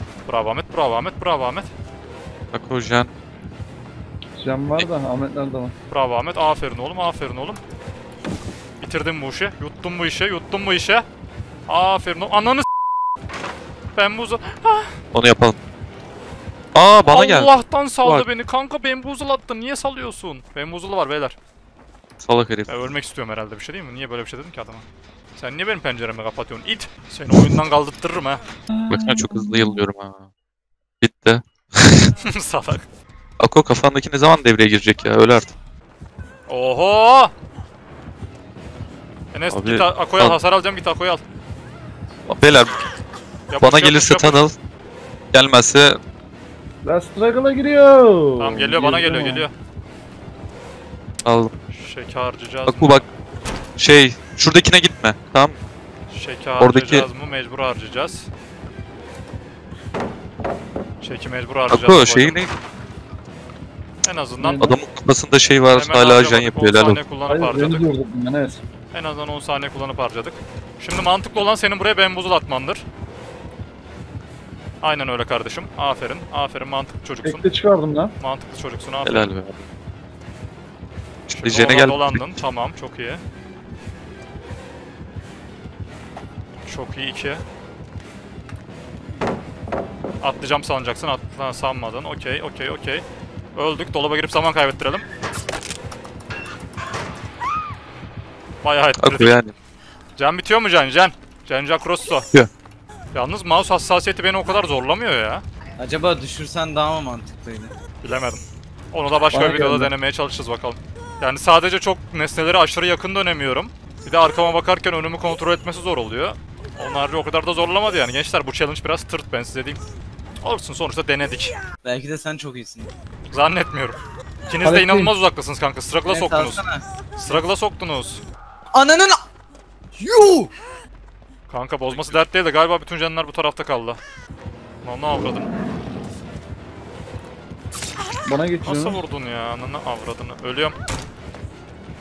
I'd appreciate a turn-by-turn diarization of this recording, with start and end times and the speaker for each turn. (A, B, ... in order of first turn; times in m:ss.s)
0:00.3-0:01.7 A
0:02.5-0:03.1 B
0:04.4-0:05.7 C
0:05.9-0:07.6 A
0:08.8-0:11.0 A
0:11.7-0:12.7 A
0:14.0-0:15.0 A
0:15.1-0:15.6 B
0:16.7-0:17.5 B
0:17.1-0:21.4 A
0:22.2-0:22.8 B
0:22.7-0:28.4 A
0:28.7-0:29.8 C
0:28.9-0:30.2 B
0:31.0-0:32.1 B
0:32.2-0:32.9 A
0:33.4-0:35.5 B
0:36.5-0:37.3 A
0:39.3-0:41.2 A
0:39.5-0:40.4 B
0:42.3-0:42.7 B
0:43.5-0:44.4 A
0:43.6-0:44.6 B
0:45.3-0:46.0 B
0:46.8-0:49.5 C
0:48.4-0:49.5 A
0:51.2-0:51.5 B
0:51.7-0:53.0 A
0:52.7-0:53.0 B
0:53.8-0:55.6 B
0:56.1-0:58.3 A
0:56.6-0:57.1 B
1:01.0-1:02.4 A
1:01.7-1:02.5 B
1:04.0-1:04.7 A
1:04.4-1:04.8 C
1:04.6-1:07.0 B
1:05.7-1:07.9 A
1:07.2-1:08.6 C
1:08.9-1:12.8 A
1:14.8-1:17.4 A
1:17.2-1:18.1 C
1:18.2-1:19.3 A
1:19.0-1:19.6 B
1:21.3-1:23.2 A
1:21.3-1:22.2 B
1:26.7-1:27.4 A
1:30.2-1:33.0 A
1:33.6-1:35.0 A
1:38.6-1:39.4 A
1:39.0-1:39.5 B
1:40.2-1:42.3 A
1:43.1-1:45.4 A
1:45.8-1:47.7 D
1:48.0-1:59.8 A
1:49.3-1:49.9 C
2:00.4-2:01.6 A
2:01.8-2:02.9 D
2:03.3-2:06.6 A
2:04.6-2:05.1 C
2:06.1-2:06.8 D
2:07.2-2:08.2 A
2:08.7-2:09.2 D
2:10.0-2:10.5 D
2:11.5-2:14.0 A
2:11.9-2:12.2 D
2:14.8-2:15.5 A
2:18.3-2:19.0 C
2:18.6-2:20.8 A